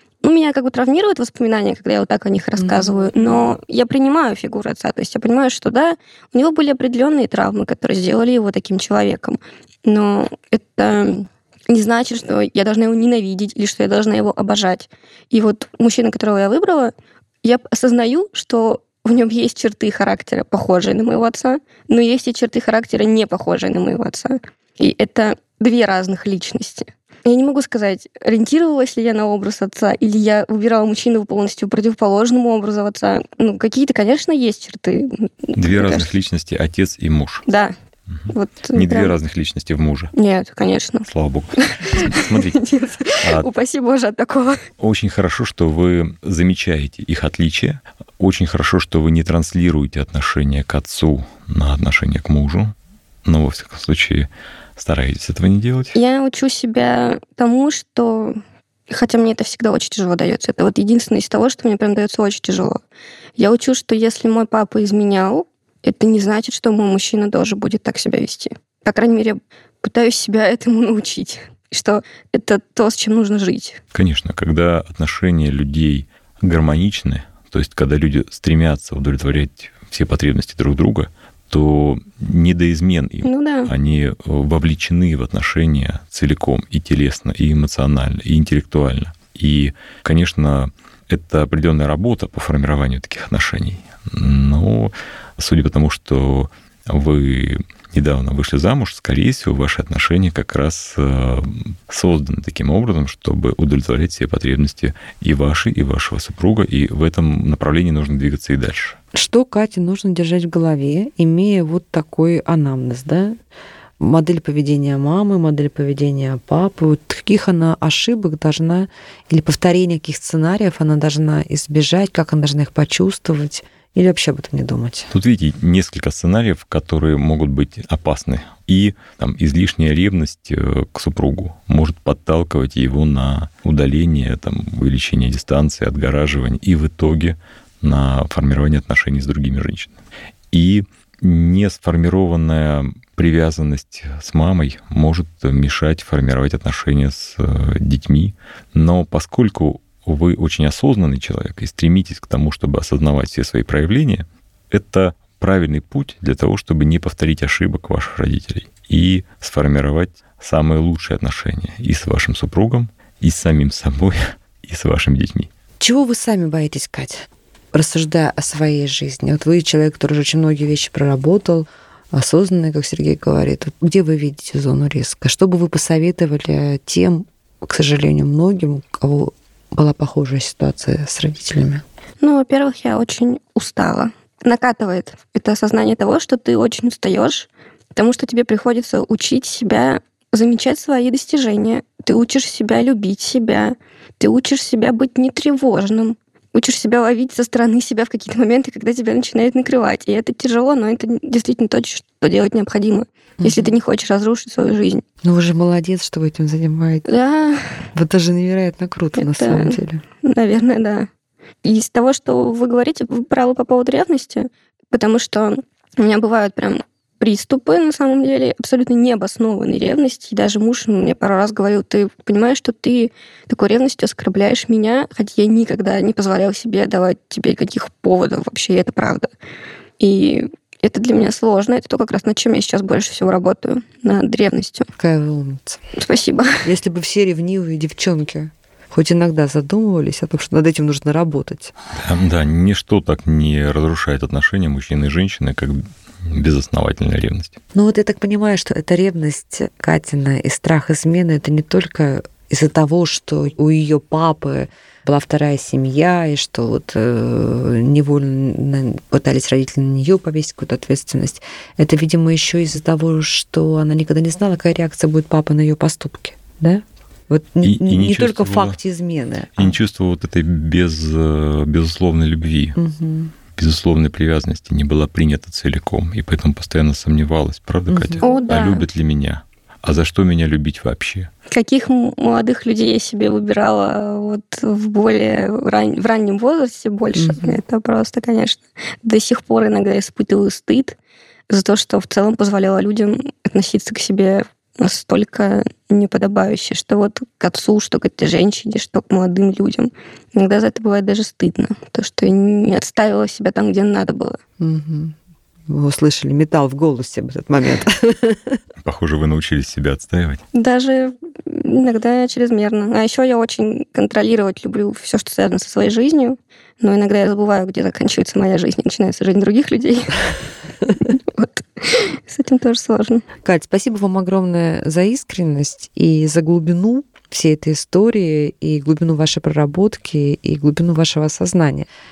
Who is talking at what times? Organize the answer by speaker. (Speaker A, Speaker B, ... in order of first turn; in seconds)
Speaker A: 0.2-36.1, 37.5-37.7, 38.3-39.2, 40.1-44.6, 55.9-58.4, 58.9-62.8, 63.4-73.8, 83.2-83.7, 182.2-205.0, 207.1-207.9, 209.2-211.1, 211.6-229.3, 230.0-234.9, 236.0-236.6, 278.2-278.9, 281.5-291.0, 291.5-304.4, 310.5-320.3, 321.0-323.2
Speaker B: 2.6-3.5, 109.1-113.4, 114.0-125.1, 165.8-181.8, 203.4-203.7, 205.2-207.1, 207.9-210.0, 235.0-235.8, 236.6-241.7, 247.7-269.8, 272.8-273.3, 277.9-278.3, 287.1-287.6, 304.6-305.1, 305.7-308.6, 323.4-331.9
Speaker C: 35.6-37.5, 38.1-40.1, 41.1-42.6, 43.2-43.5, 44.8-56.0, 73.9-109.0, 125.1-139.9, 140.5-165.5, 241.9-247.6, 267.6-268.8, 269.6-272.8, 273.6-281.3, 308.8-310.4